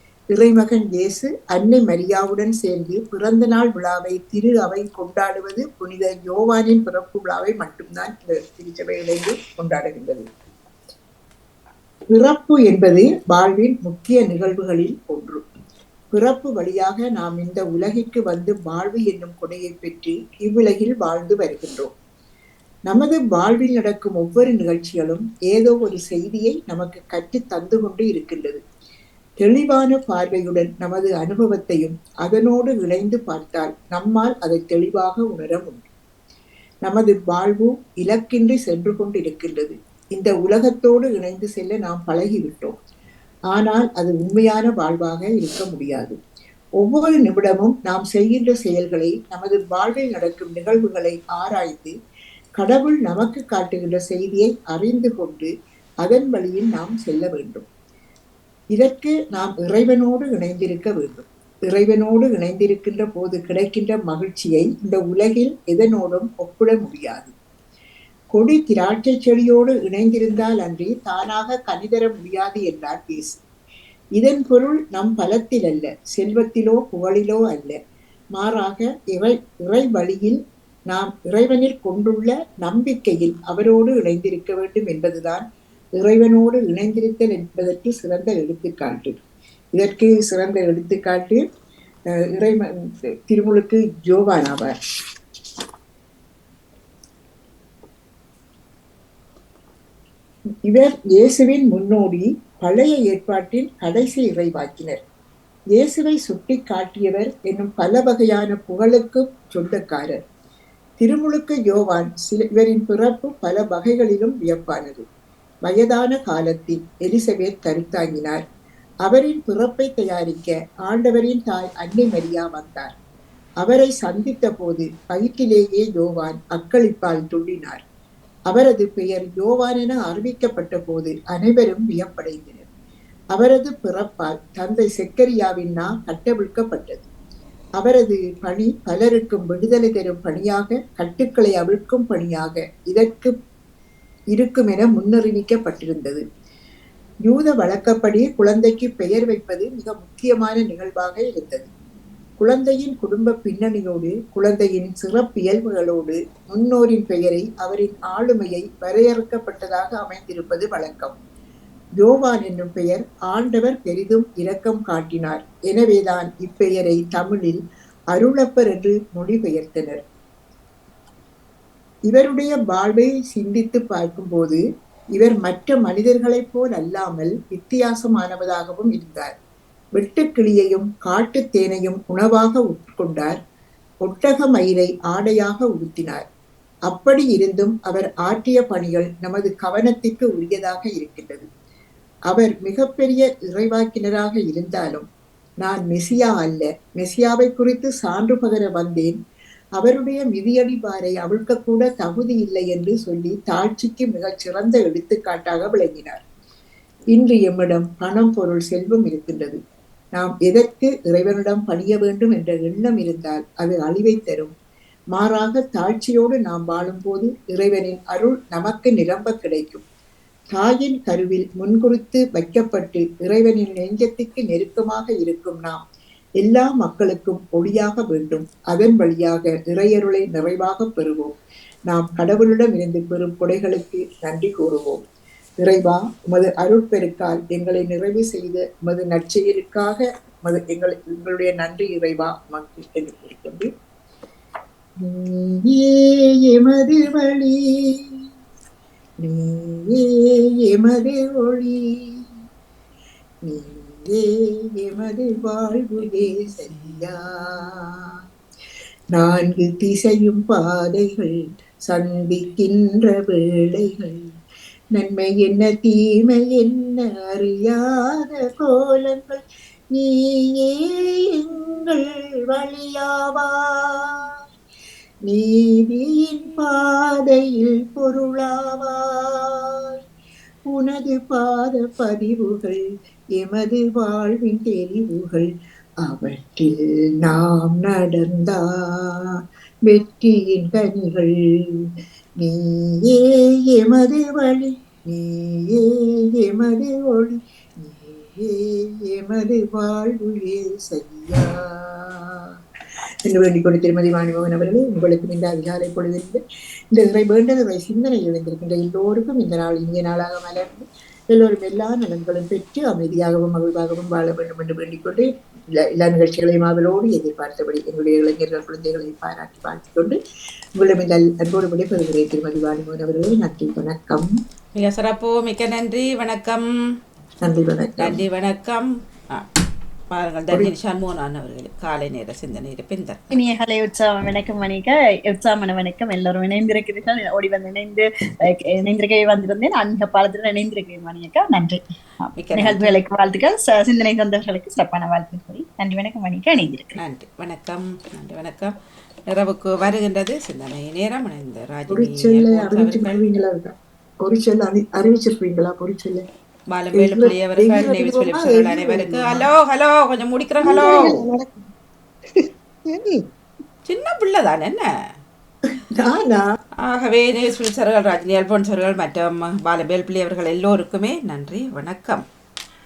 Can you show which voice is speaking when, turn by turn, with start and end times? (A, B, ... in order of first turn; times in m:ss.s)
0:00.3-0:10.3 A
0:12.1-0:15.4 A
0:16.1-0:21.9 A
0:22.9-0:28.6 A
0:29.4-0:35.8 A
0:36.8-0:42.8 A
0:43.5-0:46.2 A
0:46.8-0:51.9 A
0:52.6-0:55.5 A
0:56.0-0:57.6 A
0:58.7-1:07.3 A
1:08.3-1:13.4 A
1:14.2-1:17.8 A
1:18.3-1:25.4 A
1:26.0-1:29.2 A
1:29.7-1:31.4 A
1:32.3-1:32.6 A
1:33.3-1:34.7 A
1:40.6-1:45.0 A
1:45.7-1:50.2 A
1:51.0-1:55.1 A
1:55.6-1:58.4 A
1:59.0-2:02.9 A
2:03.6-2:07.8 A
2:08.5-2:12.7 A
2:13.3-2:17.0 A
2:17.8-2:23.3 A
2:24.3-2:26.2 A
2:27.2-2:31.7 A
2:32.4-2:41.2 A
2:42.0-2:47.6 A
2:48.1-2:50.0 A
2:52.1-2:54.6 A
2:55.2-2:59.3 A
2:59.9-3:03.4 A
3:04.0-3:06.2 A
3:06.9-3:11.5 A
3:12.3-3:15.0 A
3:15.6-3:19.2 A
3:19.8-3:26.2 A
3:27.1-3:29.6 A
3:30.2-3:34.5 A
3:35.1-3:39.8 A
3:40.5-3:45.8 A
3:46.4-3:55.0 A
3:55.6-4:03.7 A
4:05.0-4:07.9 A
4:09.2-4:11.8 A
4:13.4-4:18.0 A
4:16.0-4:17.0 B
4:19.1-4:21.3 A
4:21.9-4:24.2 A
4:24.9-4:29.4 A
4:29.9-4:34.2 A
4:35.3-4:39.9 A
4:40.7-4:42.8 A
4:43.4-4:45.5 A
4:46.0-4:49.1 A
4:49.8-4:51.3 A
4:52.4-4:53.2 A
4:53.7-4:55.8 A
4:56.4-5:02.4 A
5:03.2-5:06.4 A
5:06.9-5:15.3 A
5:16.0-5:20.2 A
5:20.8-5:24.3 A
5:24.7-5:26.7 B
5:27.4-5:28.2 A
5:28.0-5:29.4 B
5:30.1-5:33.2 B
5:33.3-5:41.8 C
5:42.3-5:43.0 B
5:42.5-5:46.9 C
5:46.9-5:48.7 B
5:49.3-5:53.2 B
5:51.9-5:56.2 A
5:56.7-6:01.2 B
5:56.9-5:59.5 A
6:00.6-6:01.3 A
6:02.9-6:03.2 A
6:03.8-6:04.8 B
6:05.9-6:06.4 A
6:06.8-6:12.2 B